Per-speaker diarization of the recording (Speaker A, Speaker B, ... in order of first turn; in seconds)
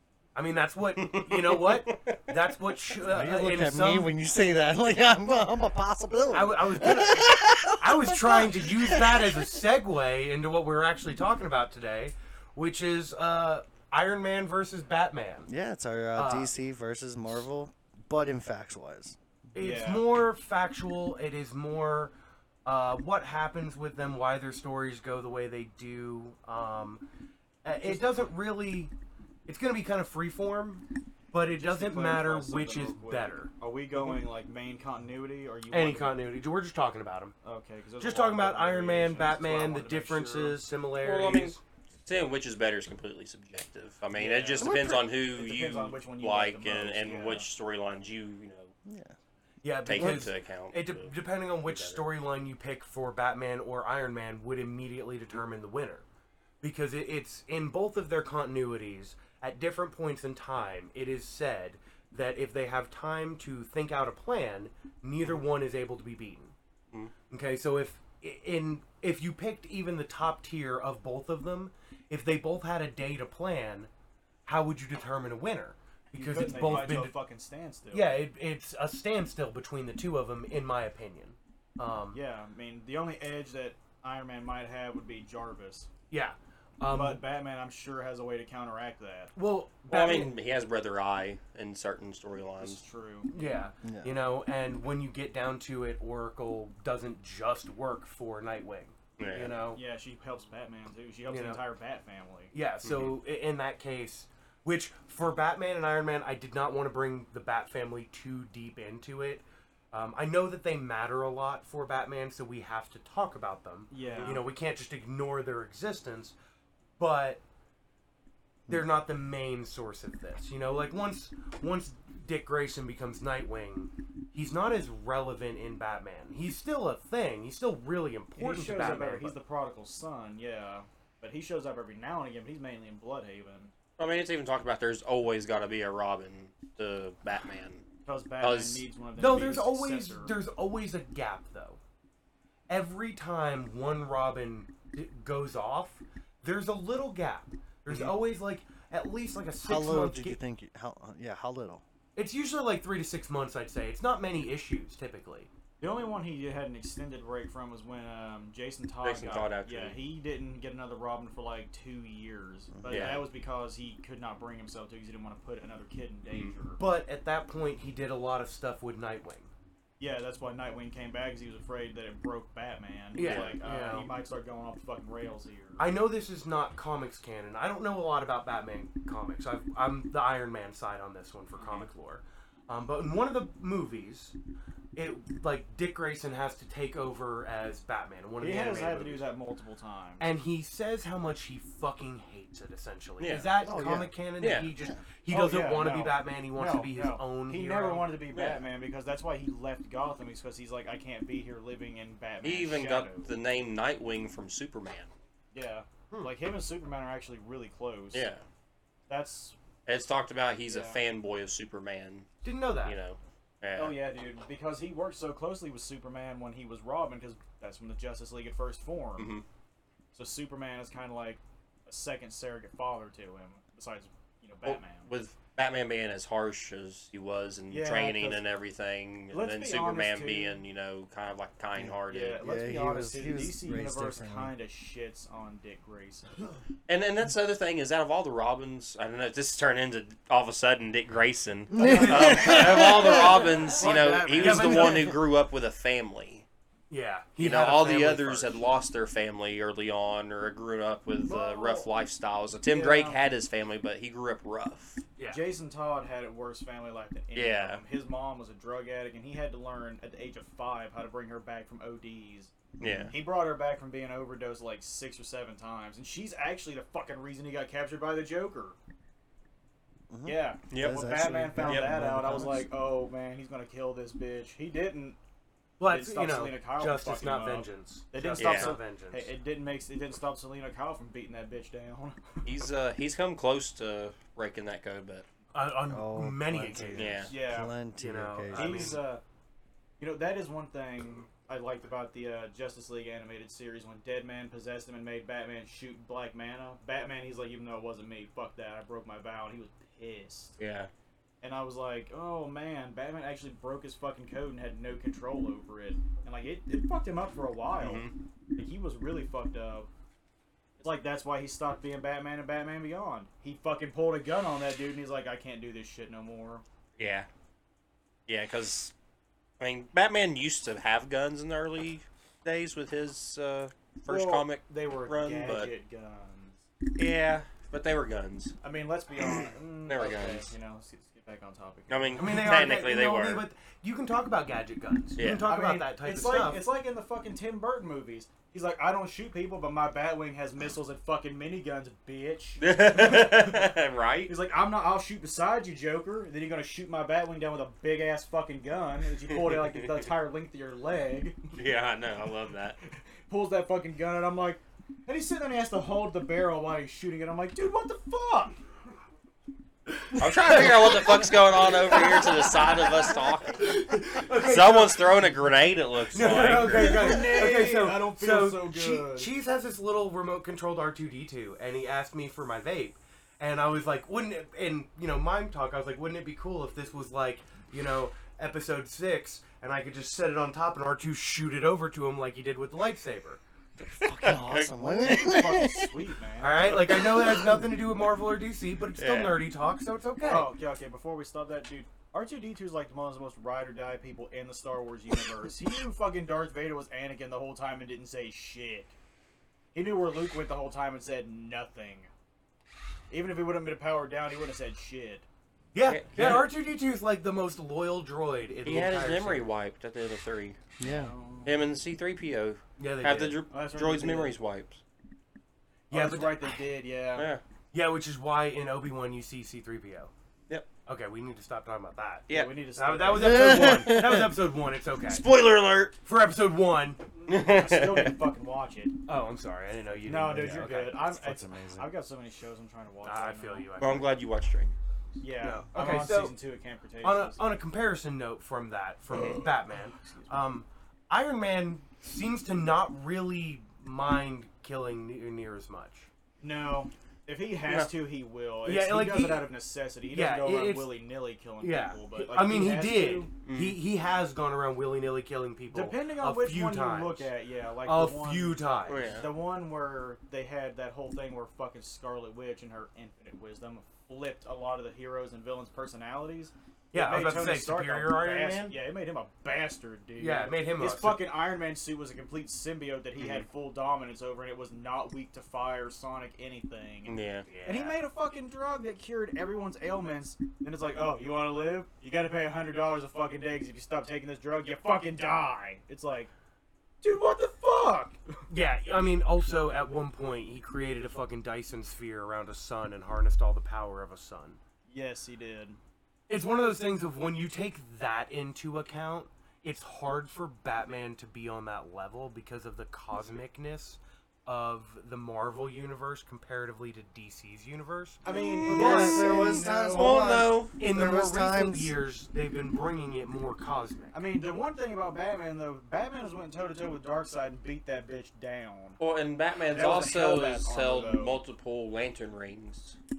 Speaker A: 0.3-4.1, 6.3-15.5, 16.2-16.5, 19.5-22.1, 22.6-27.0, 27.6-28.9, 29.5-34.2, 35.7-37.4, 38.0-41.6, 49.6-56.1, 56.6-66.5, 67.3-73.9, 74.5-77.2, 77.9-82.2, 86.1-87.2, 89.3-90.3, 93.3-99.8, 101.3-101.6, 102.5-116.3, 117.0-117.4, 118.7-129.4, 139.2-141.8, 142.7-150.4, 152.2-155.5, 166.8-169.5, 173.2-174.1, 175.8-184.4, 184.9-189.3, 190.2-198.1, 212.4-213.0, 241.8-242.9, 244.3-245.2, 246.9-248.8, 255.2-255.4, 275.8-279.3, 285.5-287.3, 288.0-289.1, 332.1-336.6, 360.0-362.9, 363.6-365.3, 366.1-383.4, 386.4-390.5, 405.7-409.5, 412.8-413.4, 415.9-416.6, 417.7-420.1, 420.9-425.2, 426.0-427.0, 429.1-431.0, 433.0-434.1, 435.4-436.4, 437.0-446.1, 448.6-449.5, 450.1-450.9, 451.6-457.3, 457.8-459.2, 466.9-468.8, 470.2-471.2, 477.5-478.0, 488.5-494.6, 496.3-509.3, 510.8-514.2
Speaker B: 1.1-2.2, 41.0-48.7, 49.9-51.1, 51.6-52.0, 89.9-92.8, 99.2-99.6, 102.8-103.1, 134.0-137.8, 138.4-138.8, 159.0-160.0, 162.9-163.3, 166.3-166.6, 173.2-173.6, 193.2-193.5, 194.4-194.7, 198.3-198.6, 202.4-205.1, 208.1-208.4, 209.9-212.3, 212.8-214.0, 219.2-219.4, 224.6-232.5, 236.9-246.5, 247.4-255.1, 257.4-257.8, 262.8-263.1, 270.7-271.0, 271.6-272.0, 278.4-278.8, 282.4-285.3, 286.9-287.4, 300.6-300.9, 307.8-308.1, 317.0-317.3, 318.3-318.9, 319.6-325.7, 327.0-328.6, 329.9-330.5, 331.9-333.4, 335.2-335.5, 342.6-344.4, 349.3-350.1, 351.5-352.8, 360.2-363.8, 364.3-367.4, 384.0-385.5, 389.0-389.4, 405.9-406.5, 408.6-410.6, 411.4-414.8, 417.1-417.4, 422.3-422.6, 425.1-426.0, 427.3-428.1, 433.8-434.8, 439.1-439.5, 447.6-447.9, 453.4-453.8, 458.9-459.3, 473.2-473.5, 477.1-477.5, 508.3-510.7, 519.0-523.0
Speaker C: 3.0-9.5, 15.5-19.2, 44.6-45.1, 48.9-49.2, 93.8-94.1, 149.6-151.8, 162.8-163.2, 193.6-194.2, 231.8-234.6, 241.7-244.9, 262.8-263.1, 270.1-272.7, 285.9-289.0, 383.8-385.9, 410.8-411.1, 423.1-424.4, 430.3-431.9, 508.6-512.0
Speaker D: 19.6-20.1, 27.8-28.4, 31.6-36.2, 37.4-40.6, 44.1-47.5, 76.1-78.2, 82.1-85.9, 86.9-89.3, 92.6-93.3, 99.7-102.5, 113.9-114.5, 128.4-133.7, 138.1-140.3, 155.8-166.8, 170.0-175.9, 181.6-181.9, 188.4-190.3, 195.3-203.3, 205.5-208.3, 209.1-209.6, 210.7-211.0, 213.8-219.3, 220.1-225.1, 227.7-228.4, 229.3-230.6, 232.1-236.6, 241.9-245.1, 251.2-251.9, 252.7-253.2, 255.3-262.5, 263.1-268.8, 270.2-275.2, 275.9-282.2, 287.3-287.8, 288.5-289.2, 290.0-300.6, 301.4-309.9, 310.8-316.6, 324.1-326.6, 328.6-332.5, 335.4-343.7, 344.3-351.5, 352.9-358.6, 366.2-369.3, 384.8-387.1, 390.2-398.9, 399.7-402.1, 403.1-405.3, 410.8-411.6, 413.5-414.4, 415.9-417.3, 422.3-423.9, 427.3-428.9, 430.1-433.8, 435.2-437.4, 439.9-440.4, 446.4-453.3, 455.7-486.3, 487.0-488.2, 494.9-495.8, 508.2-510.3, 514.1-519.0, 519.7-521.4